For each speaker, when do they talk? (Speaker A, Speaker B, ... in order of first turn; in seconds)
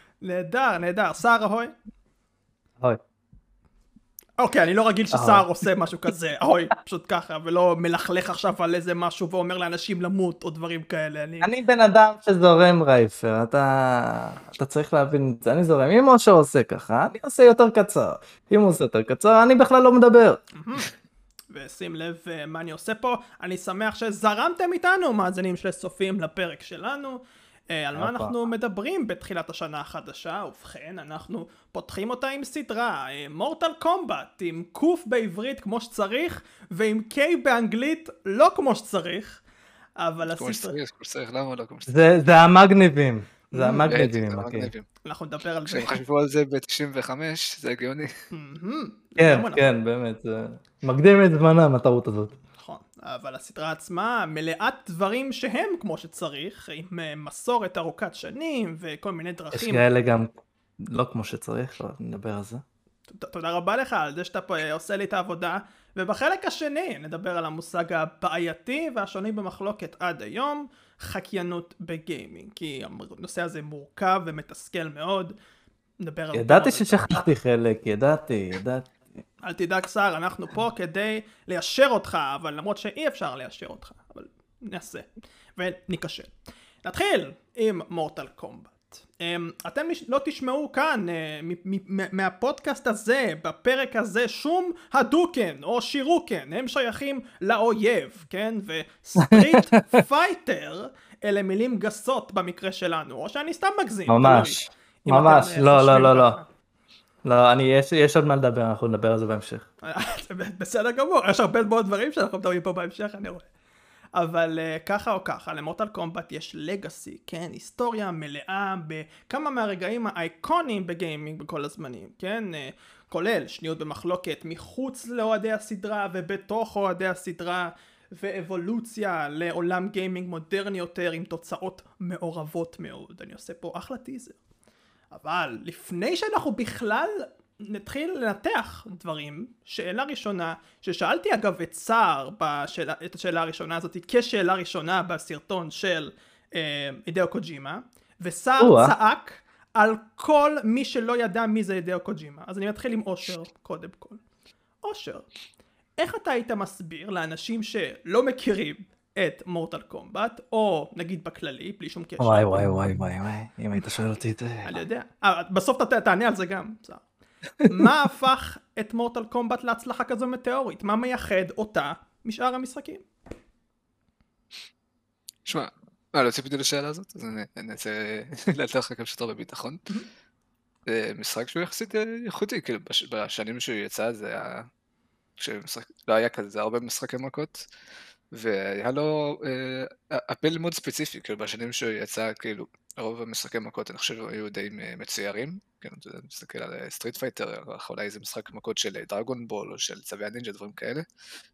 Speaker A: 0.2-1.7, 4.4-11.5, 20.6-20.9, 21.5-39.4, 40.0-40.8, 43.5-43.9, 45.0-46.0, 48.3-49.7, 52.6-59.9, 63.1-75.3, 76.0-77.2, 79.4-106.5, 109.8-113.5, 114.2-134.4, 135.1-154.2, 154.8-155.3, 156.0-162.8, 164.6-167.0, 167.7-173.1
Speaker B: 5.1-5.5, 11.4-20.4, 28.0-28.3, 41.9-44.7, 49.2-52.4, 59.5-60.3, 60.9-62.6, 76.3-79.0, 99.2-100.0, 104.1-106.4, 107.2-109.7, 148.6-148.9, 162.2-164.8
Speaker C: 40.2-41.9, 43.9-44.9, 45.7-48.1, 175.5-179.8, 180.9-184.7, 185.4-187.7, 188.3-201.1